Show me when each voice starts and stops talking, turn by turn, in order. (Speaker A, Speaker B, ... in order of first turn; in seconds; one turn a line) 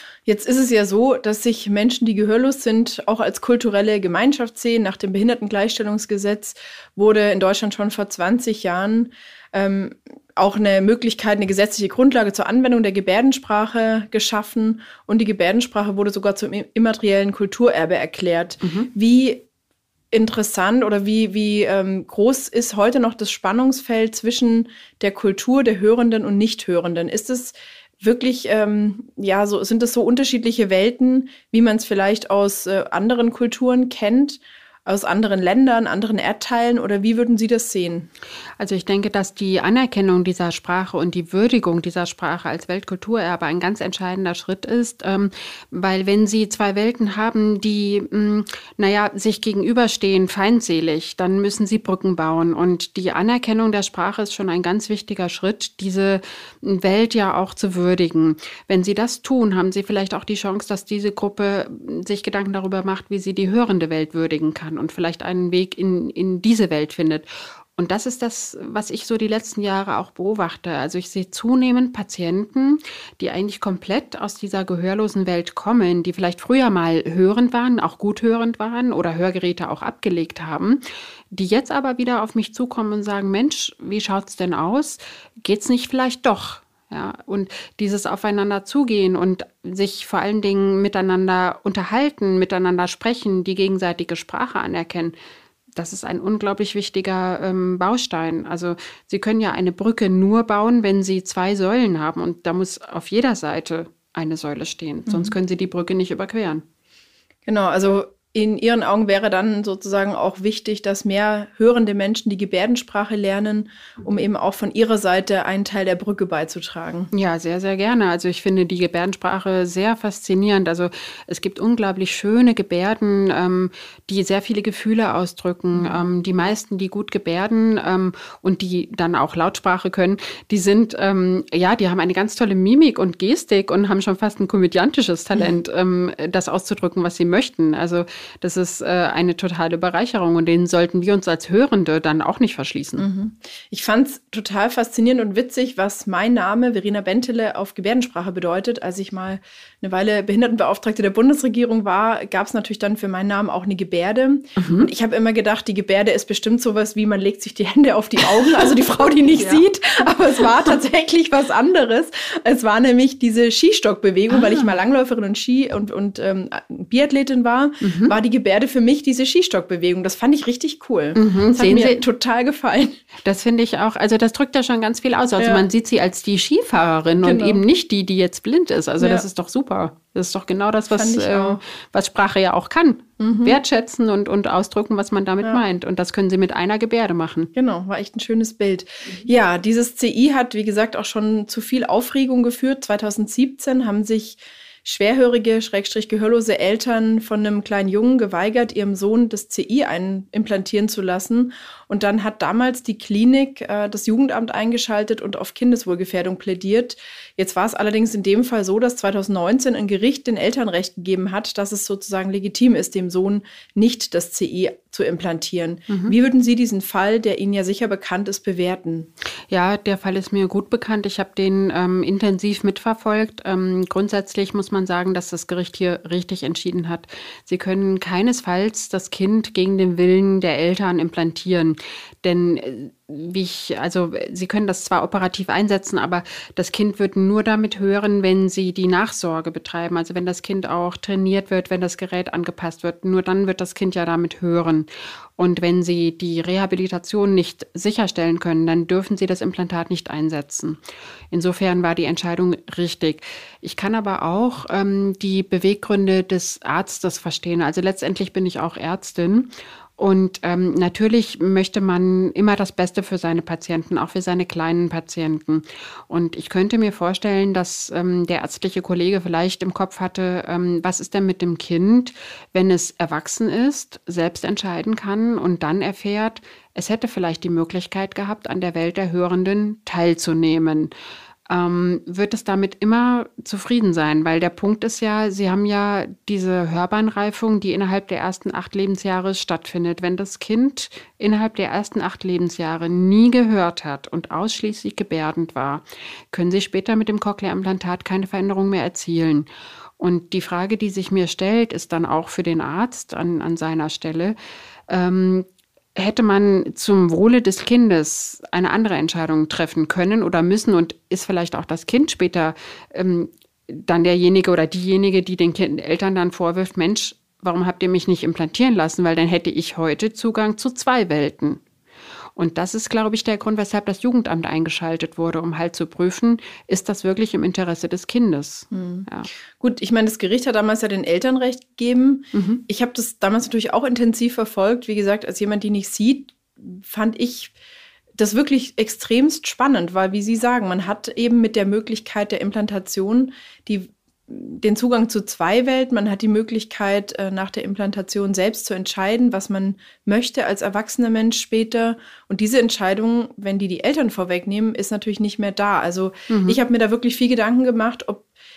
Speaker A: 0.3-19.5
Speaker B: 18.6-18.9
Speaker A: 20.1-38.1
Speaker B: 38.6-80.8
Speaker B: 81.3-95.2
Speaker B: 95.8-106.6
Speaker A: 105.1-105.3
Speaker A: 107.5-117.1
Speaker B: 117.1-143.1
Speaker A: 125.7-126.0
Speaker A: 143.0-173.0
Speaker B: 154.6-154.9
Speaker B: 159.4-159.6
Speaker B: 164.3-164.7
Speaker B: 167.8-168.2
Speaker B: 171.2-172.0
Speaker B: 173.2-187.5
Speaker A: 175.4-175.7
Speaker A: 177.2-177.6
Speaker A: 179.0-179.2
Speaker A: 180.9-181.6
Speaker A: 183.2-183.6
Speaker A: 187.6-219.1
Speaker B: 215.9-216.2
Speaker B: 219.5-250.8
Speaker B: 251.3-280.9
Speaker B: 281.5-299.5
Speaker B: 300.0-304.4
Speaker B: 304.9-321.6
Speaker B: 322.4-329.3
Speaker A: 328.7-329.1
Speaker A: 329.6-337.6
Speaker B: 332.3-332.6
Speaker A: 338.2-358.3
Speaker B: 356.3-356.6